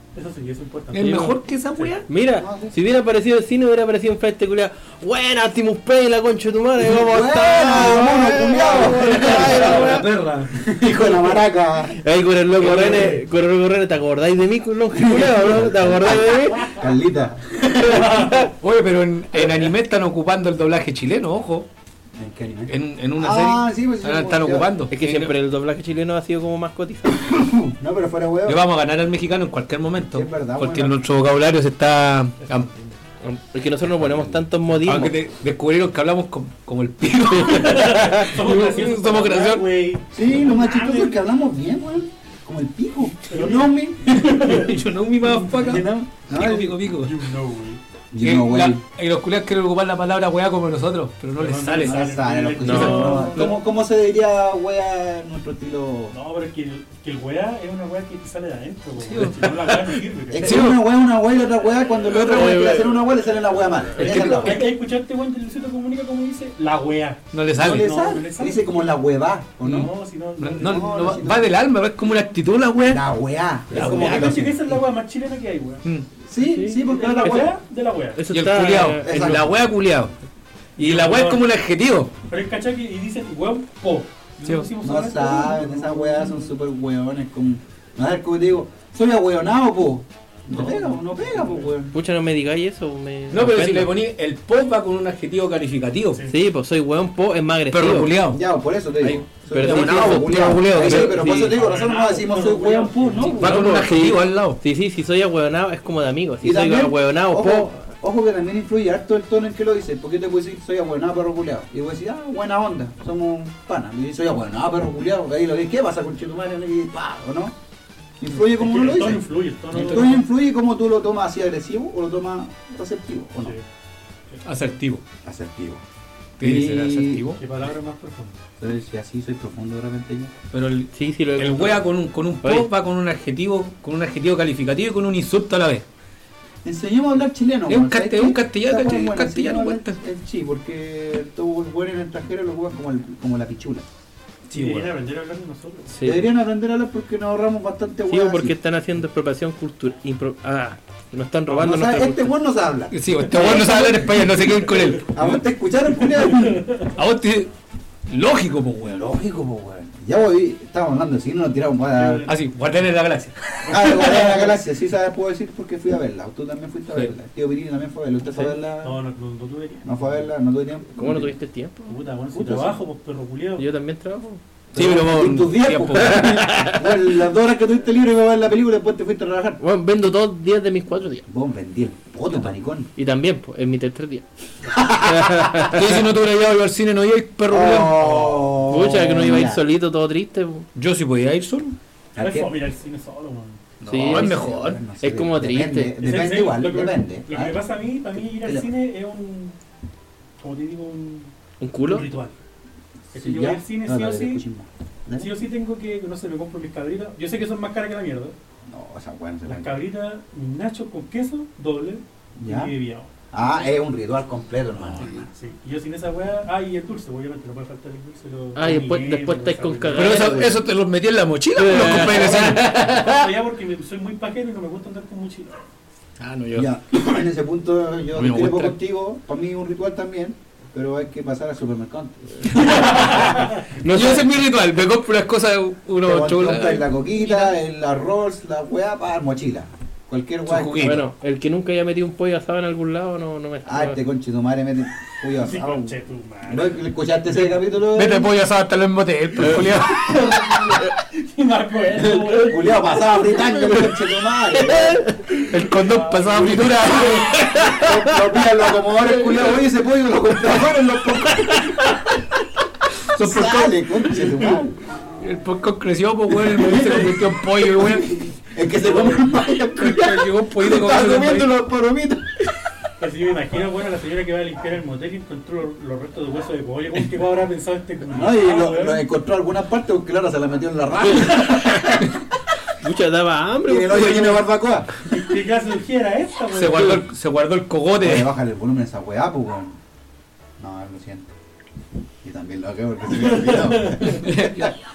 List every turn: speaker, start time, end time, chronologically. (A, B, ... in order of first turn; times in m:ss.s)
0:00.2-0:02.0 A
0:00.9-0:02.1 B
0:01.0-0:01.4 C
0:02.1-0:10.0 C
0:02.4-0:02.8 D
0:06.8-0:12.0 D
0:07.8-0:11.3 A
0:09.4-0:10.1 B
0:12.0-0:16.8 C
0:12.6-0:13.2 A
0:14.9-0:18.2 D
0:17.9-0:18.5 A
0:17.9-0:18.3 C
0:18.6-0:21.7 B
0:22.2-0:24.7 D
0:22.7-0:25.3 B
0:24.9-0:27.3 C
0:27.1-0:28.6 D
0:28.5-0:32.7 B
0:30.1-0:31.1 D
0:32.4-0:33.0 A
0:33.2-0:35.1 C
0:34.0-0:34.4 D
0:34.8-0:39.7 B
0:37.4-0:41.2 A
0:40.1-0:44.3 D
0:43.3-0:45.8 A
0:44.1-0:47.3 B
0:45.6-0:46.8 D
0:47.0-0:47.8 A
0:48.1-0:48.8 D
0:48.2-0:52.1 B
0:51.4-0:53.6 A
0:51.8-0:56.2 D
0:52.6-0:53.5 B
0:52.6-0:53.0 C
0:56.1-1:00.6 A
0:59.0-0:59.8 B
1:00.3-1:04.7 D
1:00.4-1:00.8 B
1:02.1-1:02.7 B
1:02.3-1:03.0 C
1:04.0-1:04.7 B
1:04.0-1:08.9 A
1:07.3-1:07.9 B
1:07.6-1:09.9 D
1:09.6-1:13.0 B
1:09.7-1:11.2 A
1:10.6-1:11.5 D
1:12.9-1:14.6 D
1:13.7-1:14.6 B
1:13.7-1:15.8 A
1:16.2-1:17.5 D
1:16.4-1:17.4 C
1:16.7-1:18.2 A
1:18.2-1:19.3 C
1:18.3-1:20.1 B
1:19.0-1:19.6 D
1:20.8-1:22.1 B
1:20.8-1:21.4 A
1:22.3-1:26.5 A
1:24.4-1:24.7 B
1:24.8-1:31.9 D
1:30.5-1:31.7 A
1:31.9-1:33.9 C
1:33.3-1:36.2 B
1:36.3-1:38.1 C
1:37.7-1:38.4 B
1:38.3-1:43.8 D
1:39.0-1:41.5 C
1:39.6-1:41.2 B
1:41.2-1:43.4 A
1:43.4-1:47.8 C
1:43.4-1:44.6 B
1:46.4-1:57.5 D
1:58.2-2:03.6 D
1:58.5-2:00.2 A
1:59.7-2:00.2 B
2:04.4-2:05.0 B
2:05.2-2:05.8 D
2:06.4-2:07.4 B
2:06.4-2:07.2 D
2:07.4-2:08.4 A
2:08.6-2:10.3 D
2:10.5-2:15.8 B
2:10.9-2:11.8 C
2:12.4-2:12.7 C
2:16.6-2:23.8 D
2:17.7-2:20.0 B
2:24.5-2:25.0 B
2:24.5-2:25.9 A
2:25.9-2:26.3 C
2:26.0-2:28.6 D
2:28.1-2:32.3 C
2:31.5-2:34.5 D
2:32.9-2:35.4 B
2:35.1-2:36.7 D
2:36.0-2:37.0 A
2:37.0-2:37.5 B
2:38.1-2:39.1 B
2:38.8-2:42.3 D
2:41.9-2:42.4 A
2:42.3-2:44.2 B
2:43.6-2:44.5 A
2:43.7-2:49.0 D
2:48.8-2:50.3 A
2:49.8-2:51.3 D
2:51.0-2:52.0 C
2:51.9-2:53.7 A
2:52.3-2:52.8 D
2:53.6-2:54.4 C
2:54.7-2:59.6 D
2:54.8-2:56.5 B
2:56.1-2:56.8 C
2:59.6-3:01.3 C
3:01.3-3:02.9 D
3:03.0-3:04.2 C
3:04.7-3:05.7 D
3:05.0-3:05.9 C
3:05.7-3:08.3 B
3:07.5-3:09.6 D
3:08.7-3:10.7 C
3:10.8-3:11.8 B
3:12.2-3:12.5 D
3:12.2-3:13.6 A
3:13.8-3:17.6 D
3:13.8-3:14.4 C
3:13.9-3:14.8 B
3:15.0-3:16.0 C
3:16.0-3:19.6 A
3:18.4-3:18.7 D
3:20.4-3:21.3 A
3:21.6-3:22.1 C
3:21.8-3:22.4 A
3:23.1-3:25.3 D
3:23.1-3:24.4 A
3:25.2-3:28.4 A
3:28.7-3:29.8 D
3:29.5-3:33.1 A
3:32.4-3:32.7 D
3:33.3-3:35.3 D
3:35.0-3:40.4 A
3:38.6-3:40.6 C
3:39.9-3:42.8 B
3:41.6-3:43.2 C
3:42.3-3:45.6 A
3:46.2-3:46.7 B
3:46.5-3:54.2 D
3:48.2-3:48.8 B
3:52.5-3:57.5 B
3:53.1-3:53.5 A
3:56.0-4:00.9 D
4:00.5-4:01.0 B
4:00.8-4:04.0 C
4:03.6-4:08.3 D
4:05.4-4:07.5 A
4:07.9-4:10.2 B
4:10.0-4:13.1 A
4:12.0-4:15.1 D
4:14.9-4:15.2 C
4:15.4-4:17.2 A
4:15.5-4:17.8 B
4:17.6-4:22.2 D
4:23.1-4:24.0 B
4:23.1-4:24.8 D
4:25.2-4:28.4 B
4:26.4-4:32.6 D
4:28.9-4:29.2 A
4:29.8-4:31.5 B
4:33.0-4:39.0 A
4:38.1-4:42.2 D
4:41.1-4:41.8 C
4:42.8-4:44.5 C
4:43.7-4:45.2 D
4:45.1-4:47.0 A
4:46.5-4:48.3 B
4:48.0-4:49.8 D
4:50.6-4:51.3 D
4:52.2-4:54.8 D
4:53.2-4:54.1 A
4:54.0-4:54.8 B